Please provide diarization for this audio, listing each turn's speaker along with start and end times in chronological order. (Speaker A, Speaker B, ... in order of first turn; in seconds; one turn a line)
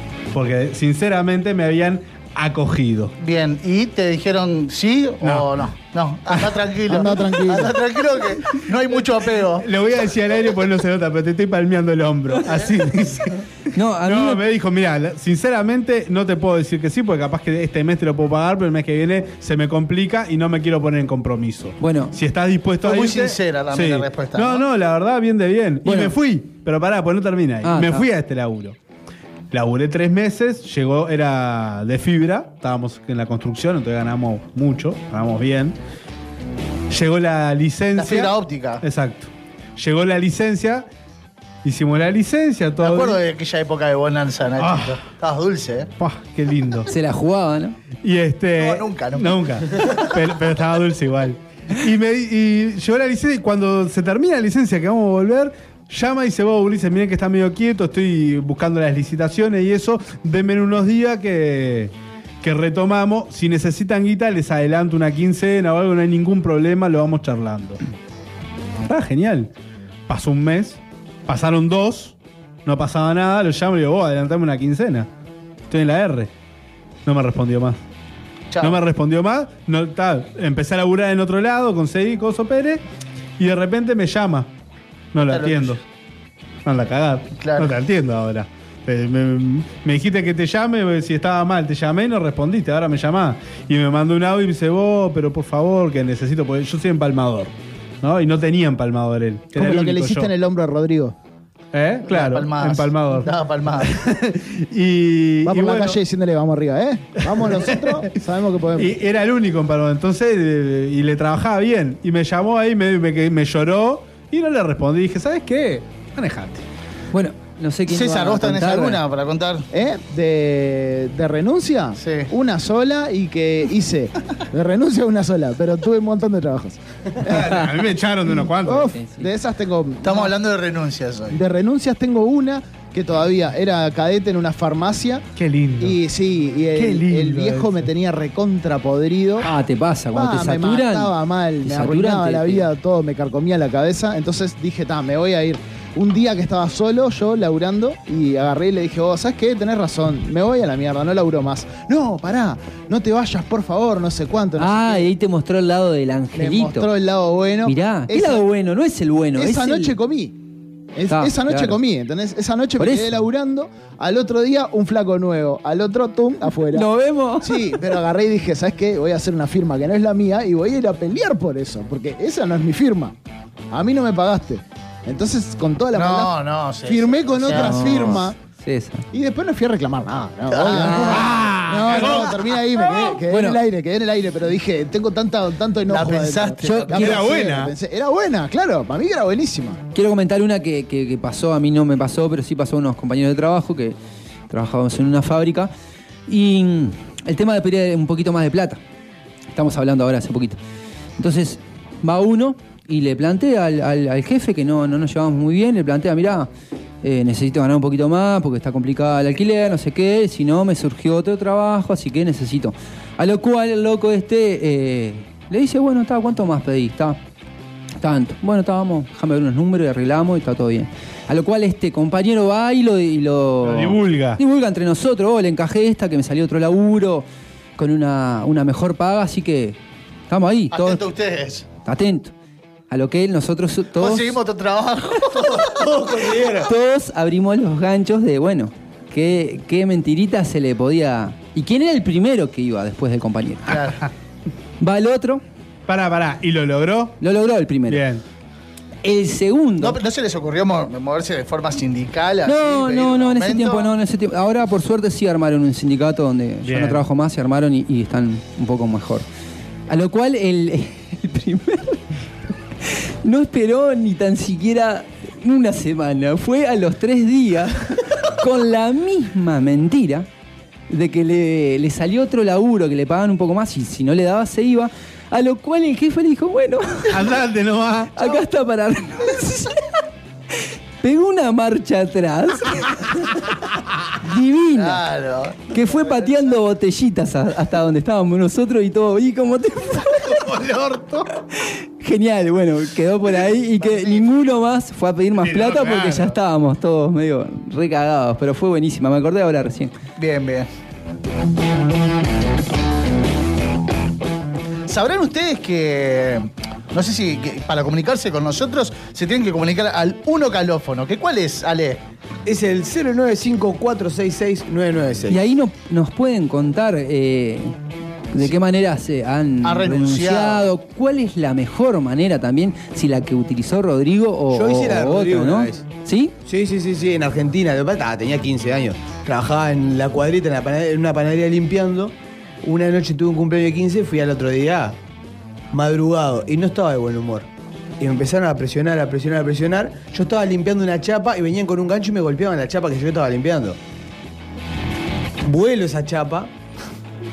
Speaker A: 0.3-3.1
Speaker B: 3.2-9.6
Speaker A: 5.2-5.6
Speaker C: 6.9-7.8
Speaker A: 9.6-13.4
Speaker D: 13.7-14.4
Speaker A: 14.1-28.8
Speaker D: 21.8-22.1
Speaker B: 22.8-24.6
Speaker D: 25.8-26.1
Speaker D: 27.6-28.1
Speaker A: 29.5-35.7
Speaker A: 36.9-38.3
Speaker B: 38.0-38.8
Speaker A: 38.8-40.8
Speaker A: 41.6-43.2
Speaker B: 42.8-45.9
Speaker A: 44.6-45.0
Speaker A: 46.0-46.9
Speaker D: 46.9-47.8
Speaker A: 48.0-67.8
Speaker B: 48.6-50.0
Speaker A: 68.9-69.5
Speaker A: 70.1-72.1
Speaker A: 72.7-75.1
Speaker A: 75.7-76.3
Speaker A: 77.0-77.8
Speaker B: 78.5-78.8
Speaker A: 78.6-82.8
Speaker A: 83.4-84.5
Speaker A: 85.1-85.8
Speaker B: 85.3-85.8
Speaker A: 86.7-100.3
Speaker B: 87.3-87.7
Speaker C: 99.5-101.1
Speaker A: 101.7-103.3
Speaker B: 102.1-104.0
Speaker A: 103.8-106.0
Speaker C: 105.4-109.0
Speaker A: 107.3-108.1
Speaker A: 108.8-116.6
Speaker D: 117.1-119.0
Speaker B: 117.9-119.7
Speaker C: 119.7-127.4
Speaker B: 122.0-122.3
Speaker A: 127.2-128.9
Speaker C: 128.7-130.3
Speaker D: 128.8-129.3
Speaker B: 130.0-131.4
Speaker C: 131.3-135.2
Speaker A: 135.3-136.0
Speaker C: 135.8-139.5
Speaker A: 136.7-137.8
Speaker D: 139.4-142.7
Speaker C: 140.1-155.1
Speaker D: 154.6-156.9
Speaker C: 156.3-158.4
Speaker D: 157.6-159.9
Speaker C: 159.3-160.3
Speaker C: 160.9-166.9
Speaker D: 161.1-161.8
Speaker D: 162.8-163.2
Speaker D: 166.7-167.7
Speaker C: 167.4-173.1
Speaker C: 173.7-178.3
Speaker B: 175.9-178.2
Speaker D: 177.5-179.1
Speaker C: 179.1-189.8
Speaker B: 180.5-183.1
Speaker D: 180.8-181.2
Speaker A: 180.9-182.4
Speaker D: 183.3-183.6
Speaker B: 185.9-187.1
Speaker D: 186.6-187.2
Speaker A: 186.9-187.7
Speaker D: 189.9-193.9
Speaker D: 194.5-195.7
Speaker D: 196.3-198.8
Speaker D: 199.5-200.6
Speaker D: 201.2-206.5
Speaker D: 207.0-217.2
Speaker D: 218.0-227.2
Speaker A: 223.6-224.4
Speaker D: 227.8-229.8
Speaker D: 230.3-231.0
Speaker B: 230.7-231.6
Speaker D: 231.8-232.3
Speaker D: 232.9-234.3
Speaker B: 234.0-236.5
Speaker E: 235.6-236.7
Speaker D: 236.7-243.8
Speaker B: 243.7-244.1
Speaker D: 244.8-245.4
Speaker A: 245.9-247.2
Speaker D: 247.2-248.0
Speaker A: 247.9-248.2
Speaker D: 249.0-250.0
Speaker B: 249.8-253.9
Speaker D: 252.4-259.2
Speaker A: 256.6-257.0
Speaker D: 259.9-262.0
Speaker D: 262.8-270.3
Speaker D: 270.9-277.3
Speaker A: 277.1-278.3
Speaker D: 278.1-279.8
Speaker D: 281.0-283.5
Speaker D: 284.2-285.0
Speaker B: 284.7-286.5
Speaker D: 285.7-290.4
Speaker A: 290.3-291.2
Speaker D: 292.0-299.9
Speaker B: 293.7-294.2
Speaker A: 295.4-296.3
Speaker B: 300.2-300.7
Speaker B: 304.9-312.0
Speaker E: 312.4-315.4
Speaker D: 315.3-317.7
Speaker D: 318.3-326.3
Speaker B: 319.6-320.6
Speaker E: 324.5-325.9
Speaker E: 326.4-334.9
Speaker E: 335.7-337.5
Speaker E: 338.0-343.8
Speaker E: 345.4-346.5